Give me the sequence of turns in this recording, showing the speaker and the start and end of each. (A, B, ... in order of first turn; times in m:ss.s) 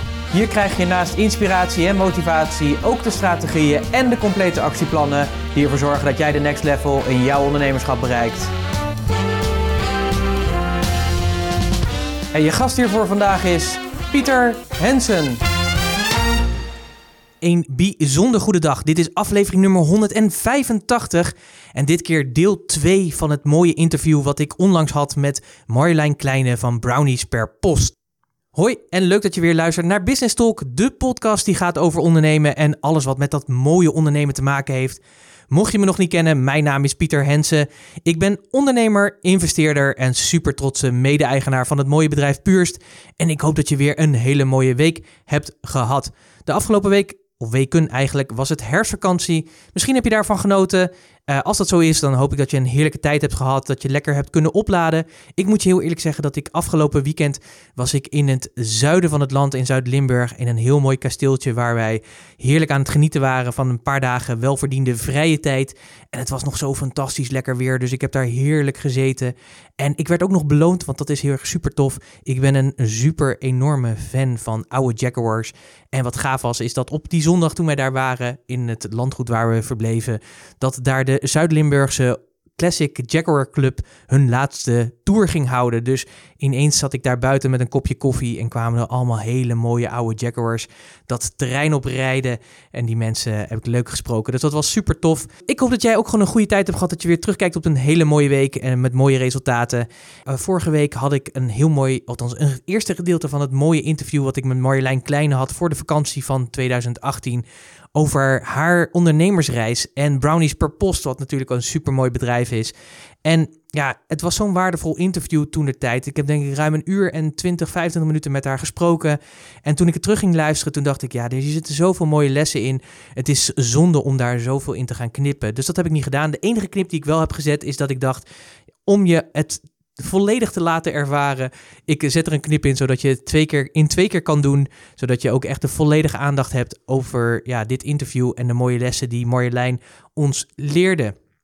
0:00.3-0:08.5 A
0:12.3-0:15.4 A
0:17.4-0:28.0 A
0:28.5-1:52.7 A
1:53.2-2:08.2 A
2:08.8-2:21.1 A